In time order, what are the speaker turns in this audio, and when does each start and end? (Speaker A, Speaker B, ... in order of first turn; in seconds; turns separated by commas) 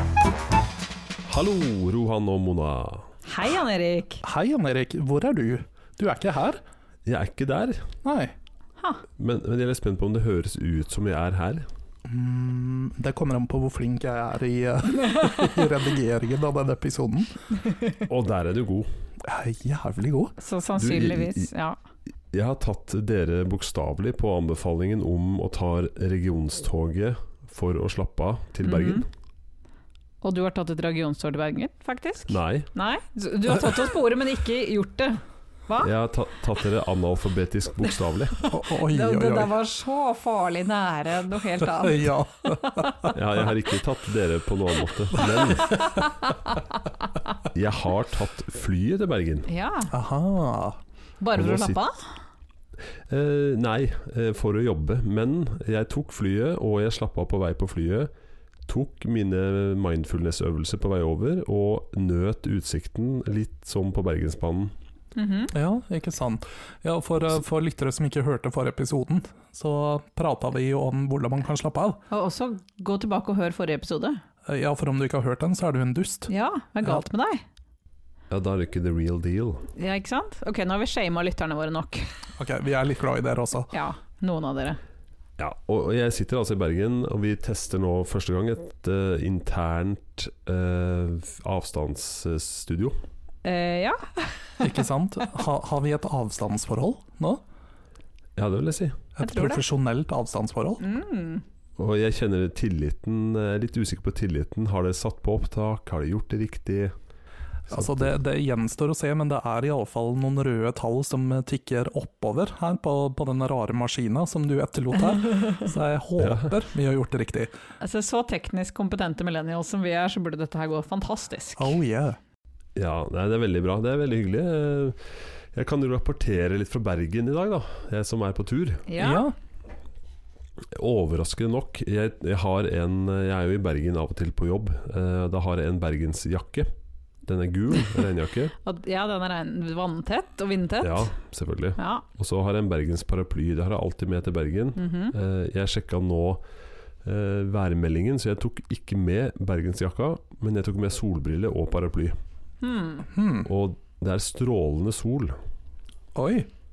Speaker A: 1.3-3.1, Speaker B: 3.2-4.2, Speaker C: 4.2-6.6, Speaker A: 7.0-7.9, Speaker C: 8.0-8.3, Speaker A: 9.2-11.7, Speaker C: 12.1-17.4, Speaker A: 18.0-18.9, Speaker C: 19.2-20.3, Speaker B: 20.4-21.8, Speaker A: 20.8-21.5, Speaker A: 22.3-29.0, Speaker B: 28.6-29.0, Speaker B: 30.2-35.9, Speaker A: 32.3-32.7, Speaker A: 35.8-38.4, Speaker C: 38.5-39.5, Speaker B: 38.9-43.1, Speaker C: 41.6-43.2, Speaker A: 43.1-45.8, Speaker C: 45.2-45.8, Speaker B: 45.7-46.6, Speaker A: 47.5-49.5, Speaker B: 49.5-49.9, Speaker C: 49.9-50.8, Speaker B: 51.2-52.0, Speaker A: 51.4-51.8, Speaker A: 53.1-58.1, Speaker A: 58.7-64.7, Speaker B: 65.2-65.5, Speaker C: 65.5-72.0, Speaker B: 72.1-74.2, Speaker C: 74.5-76.3, Speaker B: 76.3-77.4, Speaker A: 78.3-79.7, Speaker B: 79.8-82.1, Speaker C: 82.4-83.7, Speaker B: 83.7-84.8, Speaker A: 85.4-92.9, Speaker B: 93.4-94.8, Speaker C: 94.6-97.4, Speaker A: 98.3-99.0, Speaker C: 99.2-100.8, Speaker B: 99.2-99.6, Speaker B: 100.8-101.4, Speaker A: 101.8-106.9, Speaker A: 107.7-108.0, Speaker C: 107.7-117.5, Speaker A: 116.2-116.5, Speaker B: 117.8-121.8, Speaker C: 121.6-122.2, Speaker A: 122.8-128.9, Speaker B: 128.9-129.2, Speaker C: 129.0-129.3, Speaker A: 130.7-136.7, Speaker A: 137.2-138.6, Speaker B: 138.6-141.1, Speaker A: 140.8-146.4, Speaker B: 141.8-142.0, Speaker B: 144.8-145.1, Speaker A: 147.0-152.1, Speaker B: 152.6-153.1, Speaker C: 153.1-153.5, Speaker A: 153.4-155.4, Speaker C: 156.1-156.5